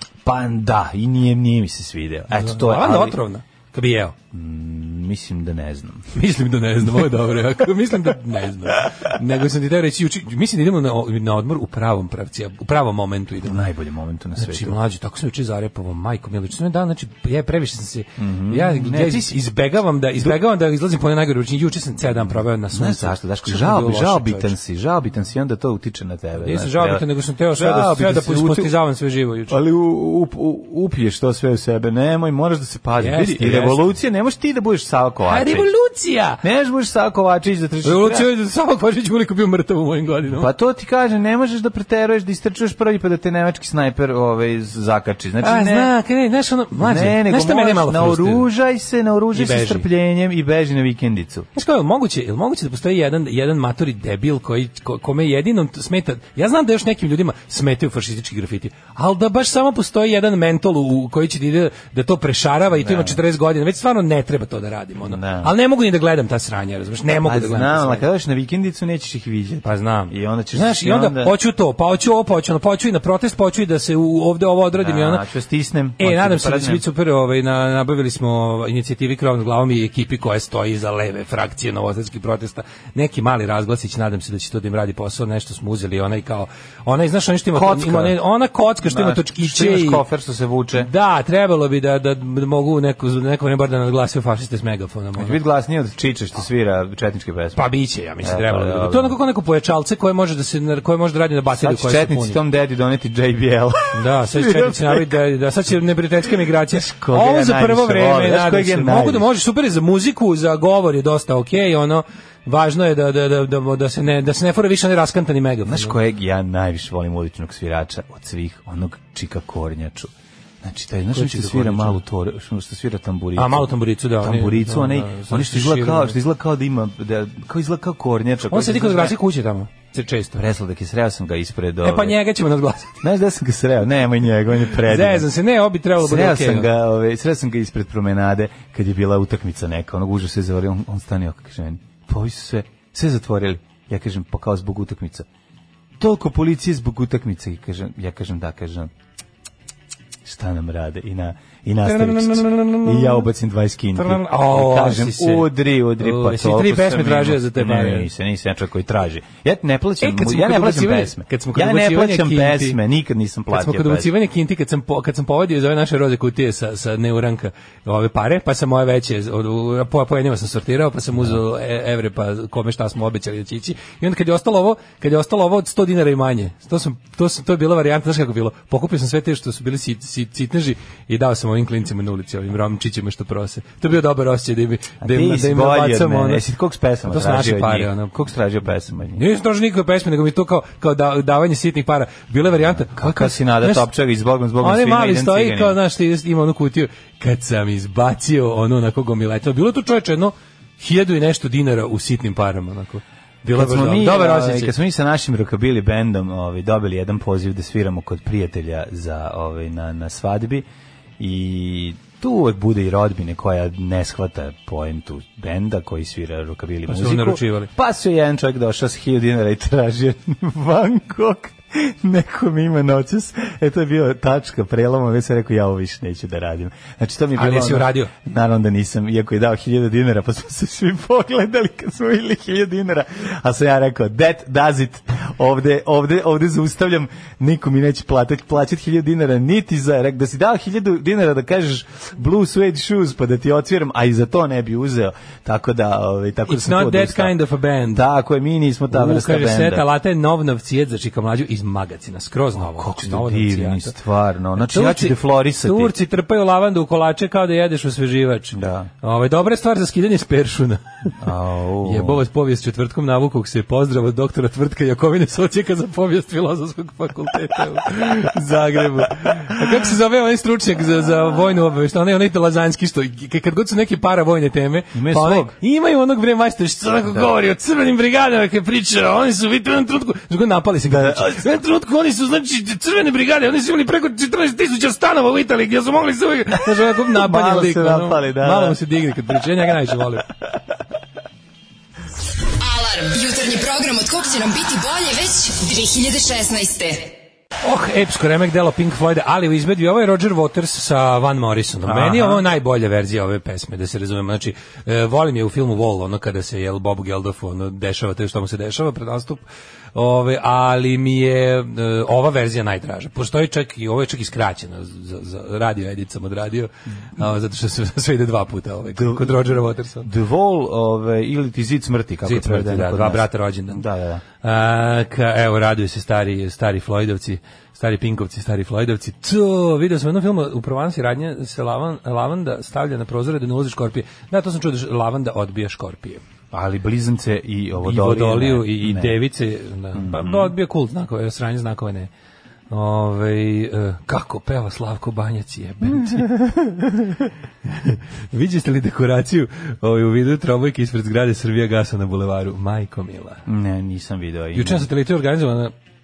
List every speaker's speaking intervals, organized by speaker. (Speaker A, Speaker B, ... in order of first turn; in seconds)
Speaker A: 0.2-3.2, 4.3-6.1, 13.4-14.8, 18.2-19.4, 22.7-28.7, 29.5-35.7, 36.4-38.3, 40.3-45.9, 46.8-51.5, 62.8-63.2, 65.1-65.5, 67.1-71.3, 74.8-76.8, 87.5-88.2, 88.8-90.9, 95.2-97.6, 98.2-99.2, 101.5-105.1, 106.7-109.3, 115.7-129.2, 130.3-132.2, 133.0-135.3, 136.0-145.3, 146.0-148.9, 150.2-164.1, 185.0-189.2, 192.9-195.8, 203.5-210.7, 211.2-247.3, 247.9-249.8, 252.6-255.9, 258.5-258.9, 261.2-262.2, 274.9-275.6, 280.8-281.5, 287.1-288.8, 301.8-302.4, 319.0-324.2, 336.5-339.2, 339.9-340.5, 353.5-354.9
Speaker B: 2.3-4.2, 6.1-13.6, 14.4-24.6, 26.4-29.6, 33.0-33.9, 35.3-36.4, 37.8-40.5, 45.4-48.5, 49.3-49.9, 51.5-68.1, 69.7-75.2, 76.0-90.0, 90.8-95.4, 97.5-102.4, 103.9-116.0, 121.1-122.0, 123.4-126.2, 128.5-130.4, 131.8-133.0, 134.7-136.7, 151.8-153.3, 153.9-158.1, 160.0-162.8, 163.5-186.4, 187.1-188.1, 189.2-193.9, 194.6-204.7, 216.9-217.7, 227.4-228.1, 246.5-248.0, 248.9-253.9, 254.6-261.2, 261.8-290.3, 297.6-309.4, 309.9-320.1, 322.2-323.8, 324.4-336.2, 337.8-342.1, 342.7-353.4, 354.5-355.7
Speaker C: 292.6-297.1